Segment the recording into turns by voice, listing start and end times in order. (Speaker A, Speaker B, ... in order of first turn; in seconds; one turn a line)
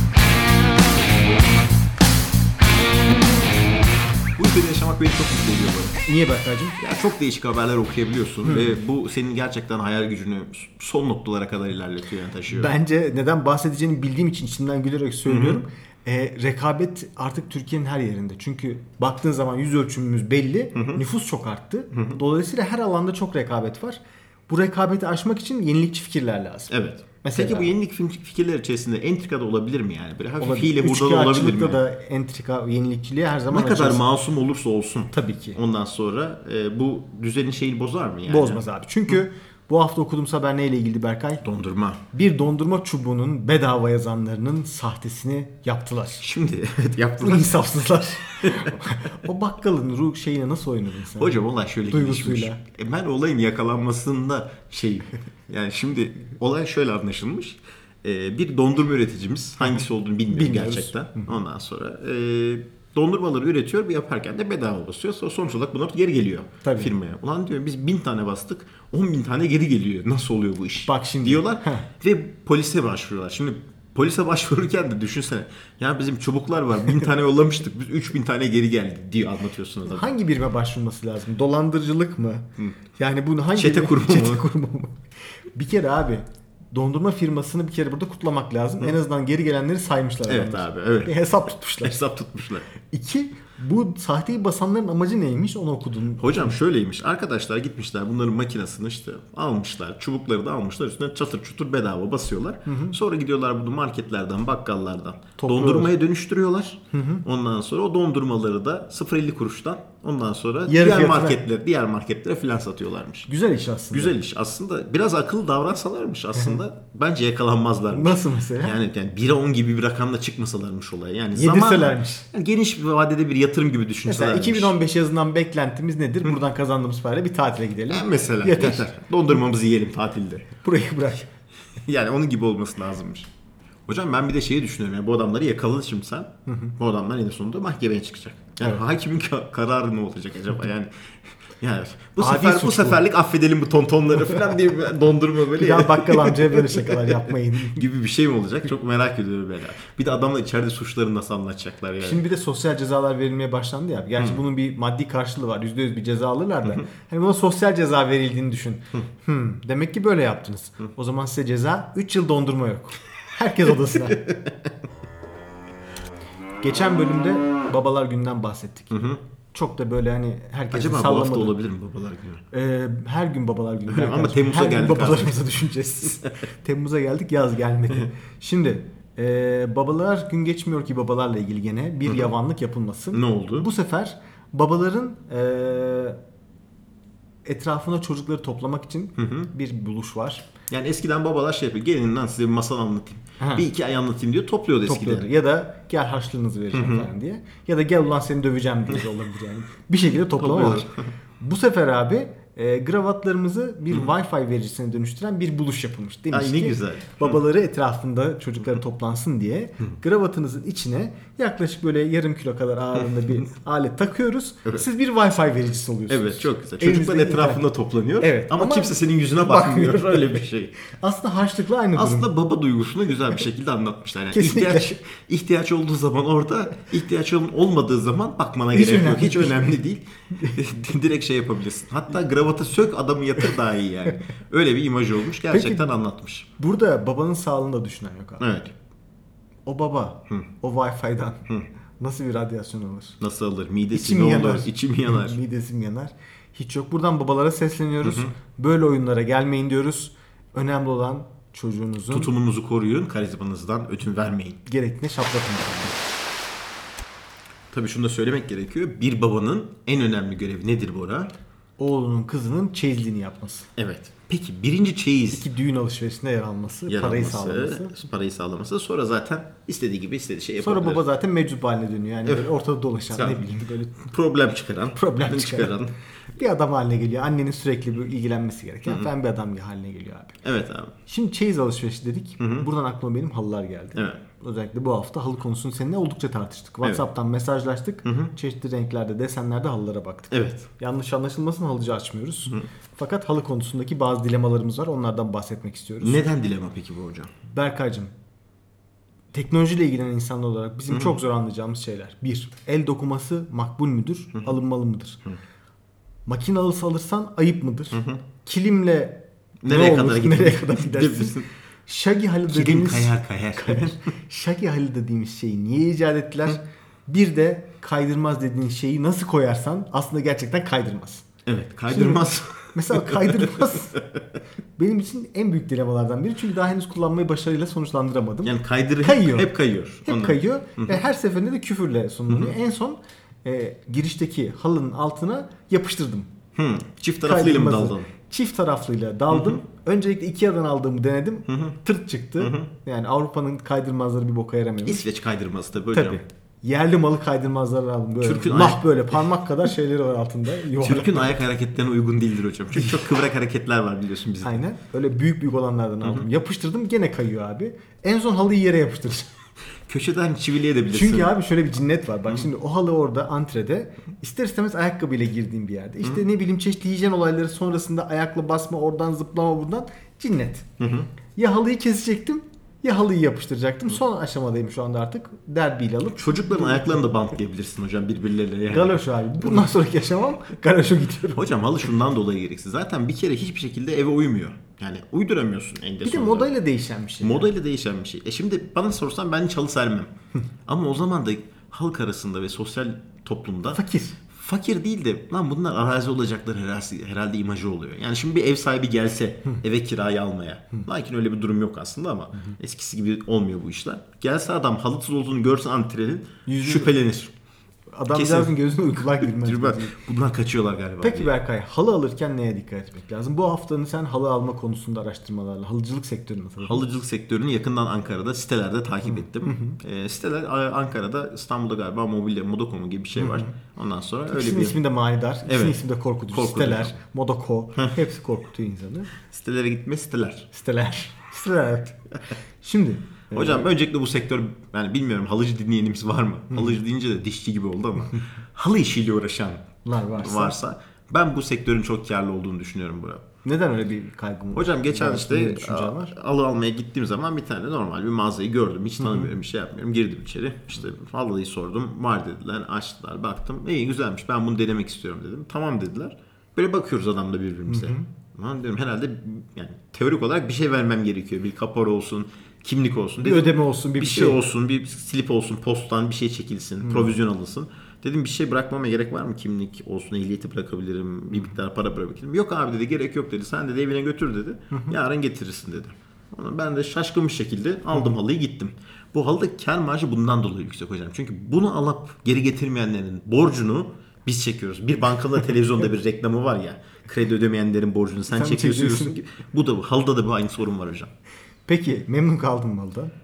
Speaker A: 4.3-6.0
Speaker B: 6.0-6.8
Speaker A: 6.8-12.7
Speaker B: 8.4-8.8
Speaker B: 12.5-27.7
Speaker A: 15.3-15.6
Speaker A: 20.7-21.0
Speaker A: 21.9-22.2
Speaker A: 26.7-31.8
Speaker B: 30.4-34.0
Speaker A: 33.5-38.6
Speaker B: 35.1-35.6
Speaker B: 38.3-41.4
Speaker A: 41.4-42.0
Speaker B: 42.1-46.2
Speaker A: 46.2-47.7
Speaker B: 47.2-52.6
Speaker A: 51.2-80.1
Speaker B: 59.6-61.4
Speaker B: 66.6-66.9
Speaker B: 70.8-71.9
Speaker B: 79.9-85.0
Speaker A: 83.5-84.4
Speaker B: 85.5-92.0
Speaker A: 90.3-91.1
Speaker A: 91.8-92.7
Speaker B: 92.8-96.6
Speaker A: 96.2-113.3
Speaker B: 102.7-103.0
Speaker B: 105.4-105.9
Speaker B: 106.9-107.2
Speaker B: 110.7-111.4
Speaker B: 113.3-114.1
Speaker A: 113.9-124.7
Speaker B: 117.9-118.8
Speaker B: 121.3-122.3
Speaker B: 124.0-128.9
Speaker A: 127.9-130.5
Speaker B: 130.6-131.3
Speaker A: 131.8-133.3
Speaker A: 133.9-141.1
Speaker B: 136.5-136.7
Speaker A: 141.6-147.2
Speaker B: 142.2-143.0
Speaker B: 145.5-147.8
Speaker A: 147.7-152.2
Speaker B: 152.0-164.3
Speaker B: 166.6-169.0
Speaker A: 168.9-169.2
Speaker B: 169.5-171.6
Speaker A: 170.7-172.4
Speaker B: 172.5-186.2
Speaker A: 173.9-175.4
Speaker A: 183.1-183.7
Speaker B: 187.4-190.4
Speaker A: 189.2-189.5
Speaker A: 190.7-195.3
Speaker B: 193.4-193.7
Speaker B: 194.8-217.6
Speaker A: 196.7-197.1
Speaker A: 200.4-201.1
Speaker A: 206.3-207.4
Speaker A: 216.1-220.7
Speaker B: 218.2-222.3
Speaker A: 221.9-236.5
Speaker B: 224.3-225.0
Speaker B: 228.7-229.8
Speaker B: 235.5-235.9
Speaker B: 236.6-238.5
Speaker A: 238.4-238.7
Speaker B: 239.7-241.4
Speaker B: 242.0-243.2
Speaker A: 243.2-245.4
Speaker B: 243.9-252.3
Speaker A: 248.0-248.3
Speaker A: 252.1-254.6
Speaker B: 254.7-256.0
Speaker A: 257.7-261.3
Speaker B: 261.8-263.7
Speaker A: 263.8-265.4
Speaker B: 265.3-267.9
Speaker A: 266.9-271.0
Speaker B: 270.6-274.0
Speaker A: 273.1-275.9
Speaker B: 274.9-275.8
Speaker B: 276.3-280.4
Speaker A: 280.4-280.9
Speaker B: 281.1-296.2
Speaker A: 282.4-282.6
Speaker A: 283.9-284.2
Speaker A: 288.0-288.3
Speaker A: 290.3-290.7
Speaker A: 296.0-297.3
Speaker B: 297.5-298.1
Speaker B: 299.3-305.2
Speaker A: 300.9-301.1
Speaker B: 306.2-321.2
Speaker A: 307.9-308.2
Speaker A: 309.6-311.5
Speaker A: 312.5-314.0
Speaker A: 321.4-323.8
Speaker B: 321.9-324.0
Speaker B: 324.8-329.5
Speaker A: 328.4-331.0
Speaker B: 330.1-336.3
Speaker A: 332.3-332.5
Speaker A: 336.5-338.1
Speaker B: 337.2-345.1
Speaker A: 339.3-339.6
Speaker A: 341.5-341.8
Speaker A: 342.4-342.7
Speaker A: 344.8-346.2
Speaker B: 345.9-351.4
Speaker A: 348.2-349.2
Speaker A: 350.8-354.6
Speaker B: 354.4-359.3
Speaker A: 359.9-361.3
Speaker B: 360.9-370.7
Speaker A: 370.8-371.1
Speaker B: 371.3-377.1
Speaker A: 376.1-379.7
Speaker B: 378.7-381.6
Speaker A: 381.3-386.5
Speaker B: 386.0-387.5
Speaker A: 387.2-390.1
Speaker A: 390.7-393.8
Speaker B: 393.7-394.2
Speaker A: 394.3-407.3
Speaker B: 406.4-406.9
Speaker B: 407.9-410.0
Speaker A: 408.1-411.3
Speaker B: 411.0-416.8
Speaker A: 416.6-424.8
Speaker B: 419.1-419.8
Speaker B: 423.1-423.5
Speaker B: 424.3-429.1
Speaker A: 425.4-426.9
Speaker A: 429.2-430.5
Speaker B: 430.5-432.1
Speaker B: 432.6-433.7
Speaker A: 433.3-443.2
Speaker B: 436.5-436.8
Speaker B: 439.8-440.6
Speaker B: 443.4-446.1
Speaker A: 444.5-491.1
Speaker B: 449.0-449.3
Speaker B: 457.7-458.1
Speaker B: 463.2-464.4
Speaker B: 466.8-467.1
Speaker B: 474.7-475.0
Speaker B: 488.3-489.2
Speaker B: 491.7-493.1